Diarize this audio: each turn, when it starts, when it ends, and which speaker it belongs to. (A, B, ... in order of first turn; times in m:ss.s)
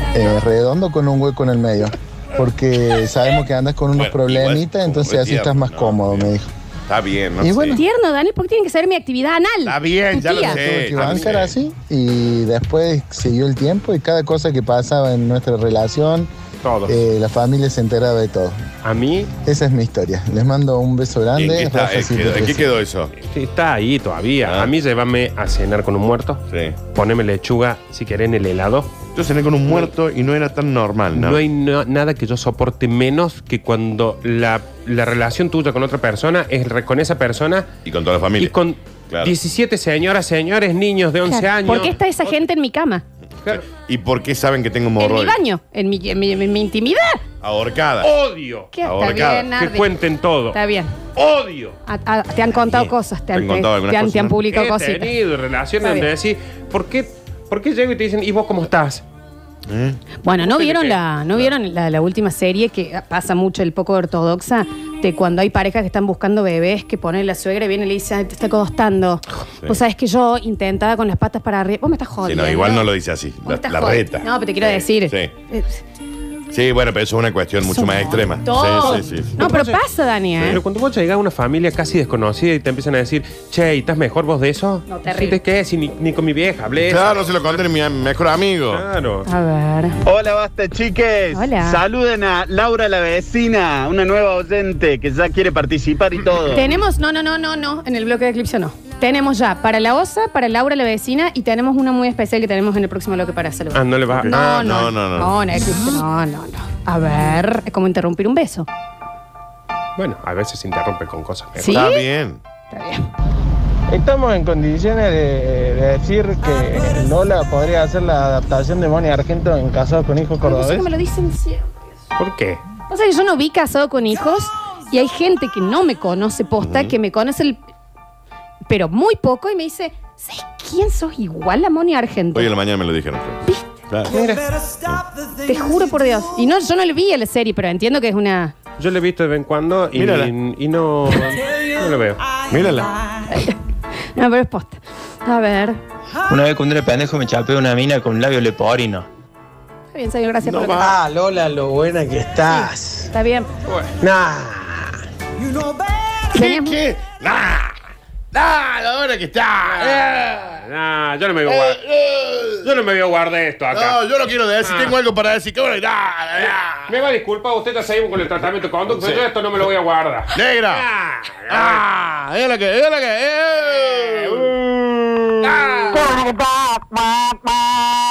0:00.1-0:06.5 A
0:04.0-0:06.3 B
0:06.9-0:07.8 B
0:07.4-0:07.8 A
0:07.8-0:10.6 C
0:09.6-0:11.5 B
0:10.3-0:16.3 A
0:16.6-0:17.0 D
0:16.9-0:18.6 A
0:18.8-0:19.3 D
0:19.4-0:22.7 A
0:21.4-0:23.1 B
0:23.2-0:26.4 D
0:24.4-0:24.7 B
0:26.5-0:26.8 B
0:26.9-0:28.9 D
0:29.2-0:31.4 B
0:31.1-0:37.7 D
0:37.8-0:38.5 B
0:38.4-0:42.0 D
0:41.3-0:43.0 C
0:43.4-0:45.4 B
0:45.0-0:47.2 C
0:47.4-0:48.1 B
0:48.0-0:48.7 D
0:48.7-0:49.9 C
0:48.8-0:49.5 B
0:49.5-0:50.6 D
0:50.5-0:50.9 C
0:51.2-0:51.8 D
0:51.9-0:55.1 C
0:52.7-0:54.4 B
0:54.5-0:59.0 D
0:55.8-0:56.1 C
0:59.7-1:00.0 B
1:00.2-1:12.9 C
1:00.4-1:01.0 D
1:12.2-1:15.3 B
1:13.5-1:15.8 C
1:16.5-1:19.4 B
1:18.4-1:20.6 C
1:18.8-1:19.8 D
1:20.5-1:27.6 D
1:24.9-1:25.4 C
1:26.9-1:28.8 B
1:28.7-1:29.3 D
1:29.3-1:30.0 C
1:30.0-1:36.7 E
1:31.3-1:31.8 C
1:36.5-1:48.7 C
1:43.7-1:44.9 D
1:44.2-1:45.4 B
1:50.0-1:51.8 D
1:51.6-1:52.0 C
1:51.6-1:52.4 B
1:52.7-1:53.1 C
1:53.9-2:00.9 F
2:00.4-2:01.8 C
2:02.2-2:02.6 D
2:02.9-2:07.6 C
2:06.6-2:07.0 B
2:08.7-2:12.5 C
2:12.3-2:14.2 B
2:13.5-2:13.8 C
2:14.1-2:14.4 D
2:15.4-2:18.6 C
2:18.8-2:22.2 D
2:20.0-2:20.3 B
2:22.5-2:22.9 B
2:23.3-2:23.6 C
2:24.2-2:25.8 C
2:26.3-2:29.1 G
2:29.9-2:31.0 C
2:30.4-2:31.0 B
2:31.1-2:32.2 D
2:32.5-2:33.5 C
2:33.7-2:34.9 D
2:36.3-2:36.8 C
2:36.3-2:37.8 B
2:38.3-2:40.6 B
2:39.6-2:40.0 D
2:40.6-2:41.8 D
2:41.5-2:42.7 B
2:42.6-2:44.0 D
2:43.7-2:46.9 B
2:44.6-2:45.0 D
2:46.9-2:51.8 D
2:48.9-2:49.2 B
2:50.4-2:50.9 B
2:51.5-2:56.1 B